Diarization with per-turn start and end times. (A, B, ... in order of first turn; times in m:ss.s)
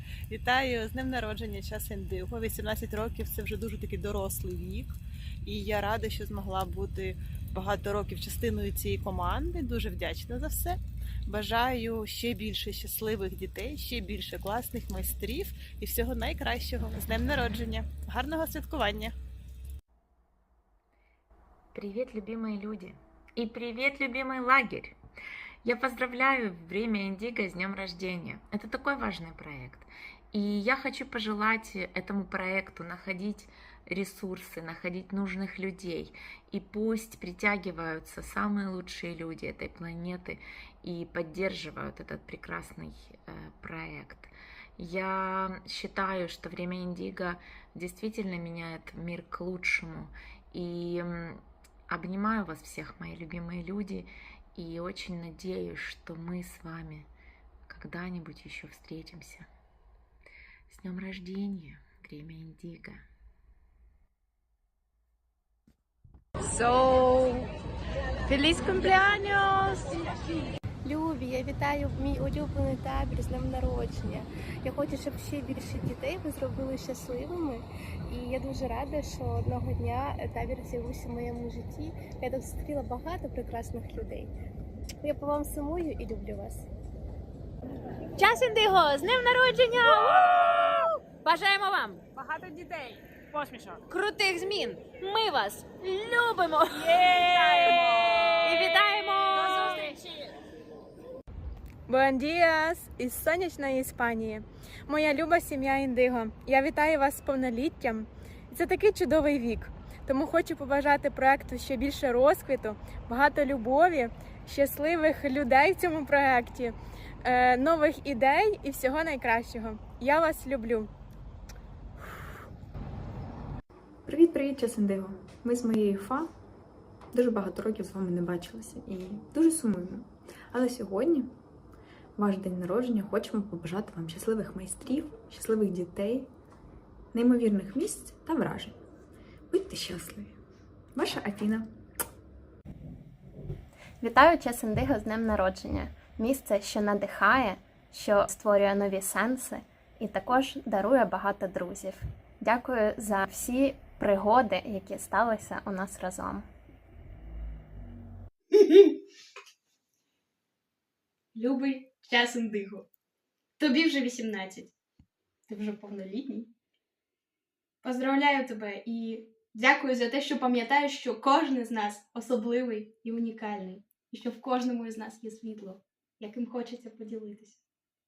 0:00.3-0:19.1 A
0:21.7-0:25.0 B
0:25.6-0:57.1 B
0:57.7-0:59.5 B
1:00.7-1:03.0 B
1:08.7-1:10.0 C
1:10.8-1:24.3 C
1:25.0-1:26.7 C
1:28.2-1:32.0 D
1:32.1-1:33.8 E
1:33.9-1:39.8 D
1:36.8-1:40.0 E
1:41.9-2:00.9 F
2:04.0-2:06.3 G
2:07.1-2:11.3 G
2:12.2-2:16.3 G
2:17.1-2:18.8 G
2:19.5-2:20.4 G
2:20.9-2:21.7 G
2:24.0-2:36.5 H
2:38.6-2:38.9 I
2:41.3-2:42.8 I
2:43.6-2:44.7 I
2:45.5-2:46.5 I
2:47.8-2:57.6 I